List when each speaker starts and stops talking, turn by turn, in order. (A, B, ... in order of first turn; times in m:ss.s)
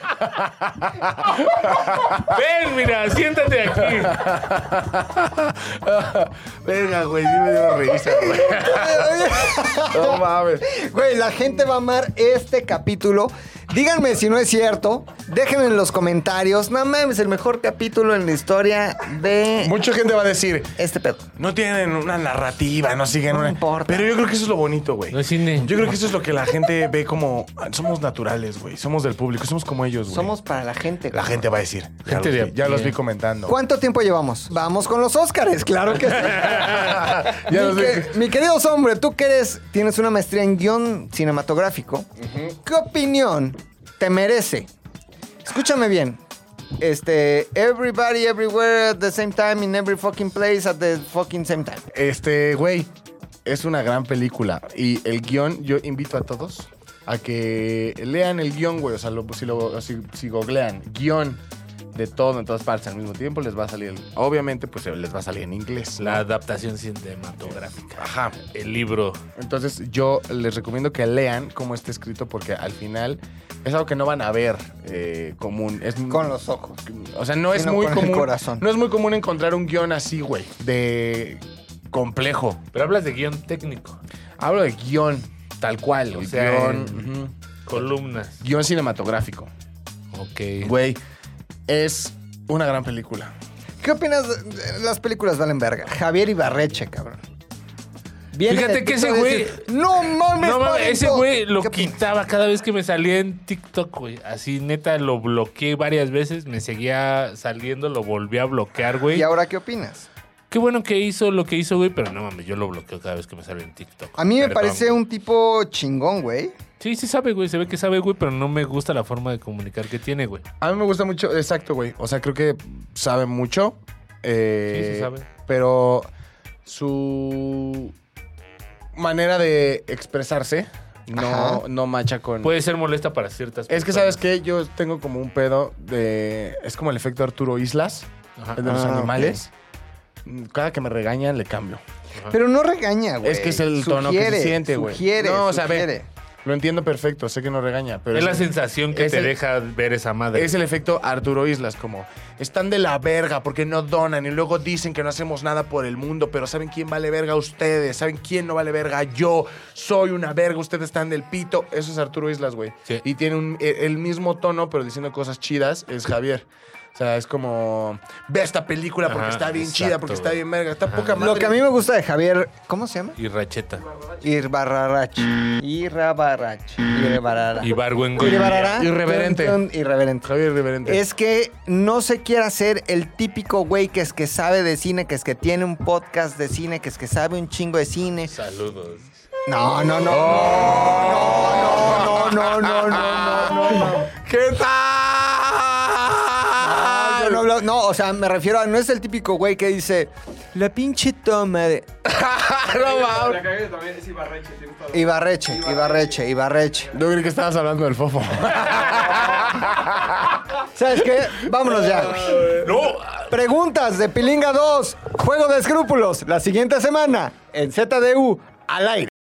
0:00.2-0:02.2 A
0:02.1-0:04.3 B
0:03.9-0:09.2 A
0:08.0-0:19.8 C
0:09.9-0:10.7 A
0:19.6-0:20.8 A
0:20.8-0:21.3 C
0:21.4-0:30.3 A
0:23.3-0:24.1 C
0:25.1-0:25.9 B
0:30.1-0:31.4 C
0:31.1-0:33.6 A
0:32.1-0:33.0 B
0:33.5-0:44.7 C
0:36.6-0:38.2 A
0:45.4-0:46.2 C
0:46.8-0:51.9 C
0:51.9-0:52.9 A
0:53.4-1:01.4 A
1:01.9-1:06.2 A
1:06.0-1:09.2 B
1:08.0-1:08.4 A
1:09.4-1:16.3 A
1:16.1-1:16.8 C
1:16.9-1:22.6 A
1:17.5-1:18.7 C
1:22.7-1:24.0 B
1:24.4-1:27.3 A
1:26.1-1:27.0 B
1:27.7-1:28.4 B
1:28.4-1:29.5 A
1:30.1-1:30.7 B
1:30.6-1:31.0 A
1:31.7-1:33.3 A
1:33.8-1:37.2 C
1:38.3-1:42.0 C
1:38.5-1:39.7 B
1:40.4-1:49.3 B
1:49.1-1:50.1 C
1:50.5-1:55.0 B
1:54.2-1:56.5 C
1:56.8-2:00.4 B
2:00.6-2:06.1 A
2:04.7-2:05.3 B
2:06.6-2:07.9 A
2:09.0-2:12.5 A
2:11.1-2:11.6 C
2:12.4-2:14.3 B
2:13.7-2:19.5 A
2:18.6-2:19.4 C
2:20.2-2:21.8 A
2:22.3-2:26.1 C
2:23.2-2:25.9 A
2:26.4-2:29.4 A
2:28.1-2:30.5 B
2:30.3-2:51.6 A
2:49.1-2:51.2 B
2:51.2-2:53.2 C
2:53.2-2:53.8 B
2:54.2-3:00.3 C
2:57.6-2:58.8 B
2:58.6-2:59.6 A
3:00.2-3:01.0 A
3:00.9-3:08.3 C
3:08.3-3:09.2 B
3:09.5-3:14.1 C
3:10.0-3:17.5 A
3:16.6-3:21.9 C
3:22.0-3:23.5 A
3:22.8-3:26.2 D
3:24.9-3:26.9 C
3:26.9-3:30.4 A
3:30.8-3:32.6 C
3:32.5-3:33.3 B
3:33.3-3:39.1 C